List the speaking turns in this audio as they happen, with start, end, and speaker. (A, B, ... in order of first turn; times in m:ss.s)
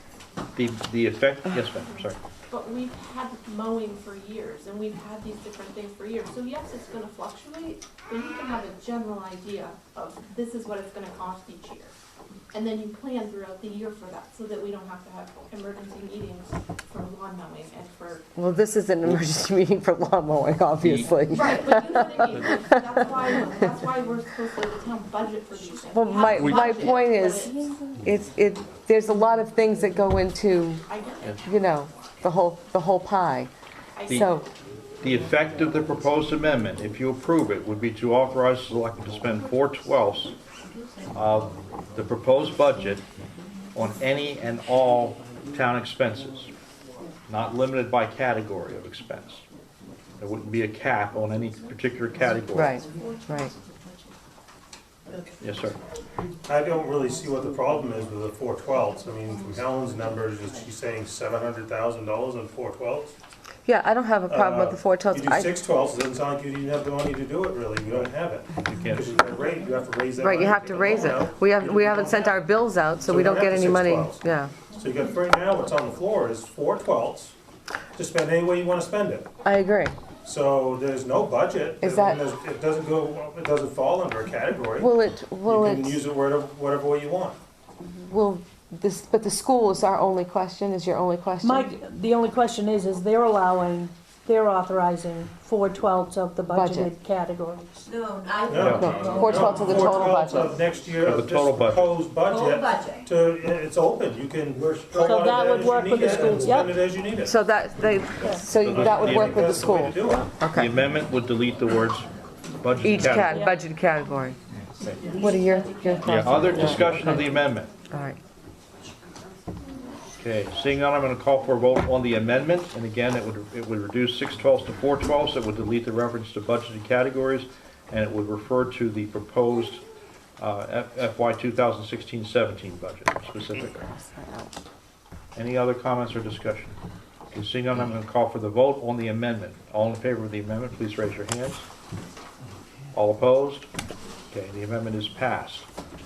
0:00.5-0:02.2 A
0:02.5-0:11.9 B
0:12.5-0:18.2 B
0:18.4-0:23.0 C
0:20.8-0:21.1 A
0:21.3-0:27.6 B
0:25.9-0:30.8 C
0:26.4-0:26.6 A
0:30.8-0:32.1 B
0:31.4-0:33.5 C
0:34.0-0:34.4 B
0:34.1-0:34.5 C
0:35.0-0:40.3 A
0:41.1-0:43.0 A
0:43.7-0:46.5 A
0:47.3-0:49.4 A
0:50.2-0:52.8 A
0:52.5-0:53.5 C
0:55.4-0:55.8 A
0:56.4-1:03.2 D
1:03.6-1:05.5 C
1:04.3-1:12.4 D
1:08.6-1:09.1 A
1:10.2-1:14.5 C
1:13.0-1:14.2 D
1:14.7-1:17.3 D
1:17.9-1:19.3 D
1:19.4-1:19.9 C
1:20.2-1:27.4 D
1:21.8-1:22.2 C
1:24.8-1:26.0 C
1:27.8-1:31.7 C
1:31.4-1:38.1 E
1:36.5-1:36.9 C
1:38.4-1:47.4 D
1:38.6-1:40.6 C
1:38.6-1:39.1 A
1:41.0-1:42.0 A
1:45.0-1:46.8 E
1:47.2-1:50.7 C
1:48.2-1:48.5 E
1:48.6-1:50.0 A
1:48.6-1:50.3 D
1:50.5-1:52.1 A
1:52.6-1:53.4 A
1:52.8-1:54.4 C
1:53.0-1:53.6 E
1:55.2-1:57.3 C
1:56.0-1:57.7 A
1:57.9-1:58.2 C
2:00.2-2:09.8 A
2:10.4-2:13.8 A
2:13.7-2:14.5 C
2:15.4-2:16.8 A
2:17.3-2:21.7 A
2:22.9-2:23.7 A
2:24.3-2:25.7 A